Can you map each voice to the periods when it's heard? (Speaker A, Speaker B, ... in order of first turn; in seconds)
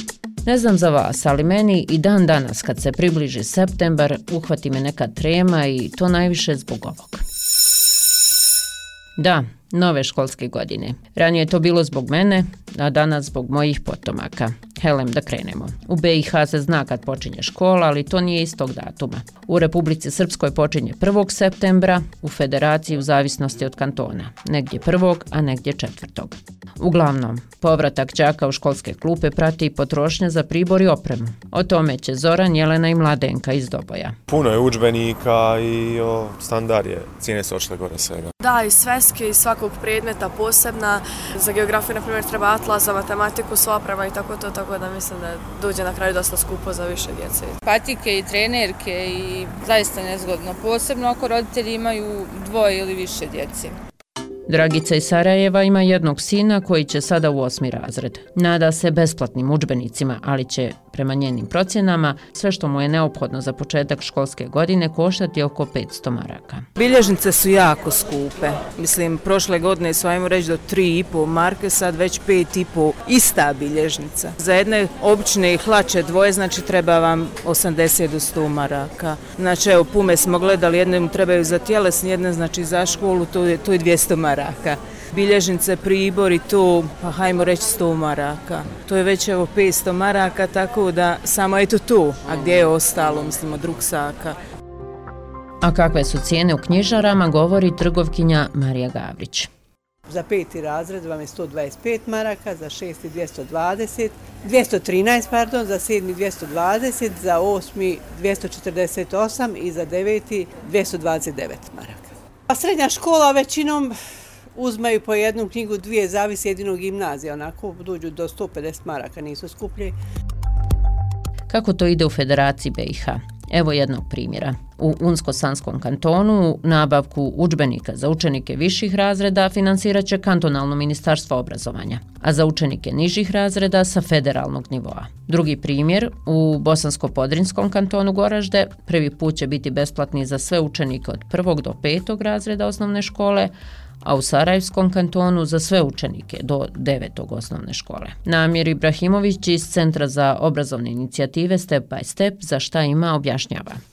Speaker A: 0.4-7.2, 9.2-34.1, 54.5-66.7, 95.6-99.5, 121.5-143.5, 144.0-153.8
Speaker B: 34.3-38.3
Speaker C: 38.4-47.6
Speaker D: 47.6-53.7
Speaker E: 66.8-94.3
Speaker F: 100.1-113.9, 114.5-119.9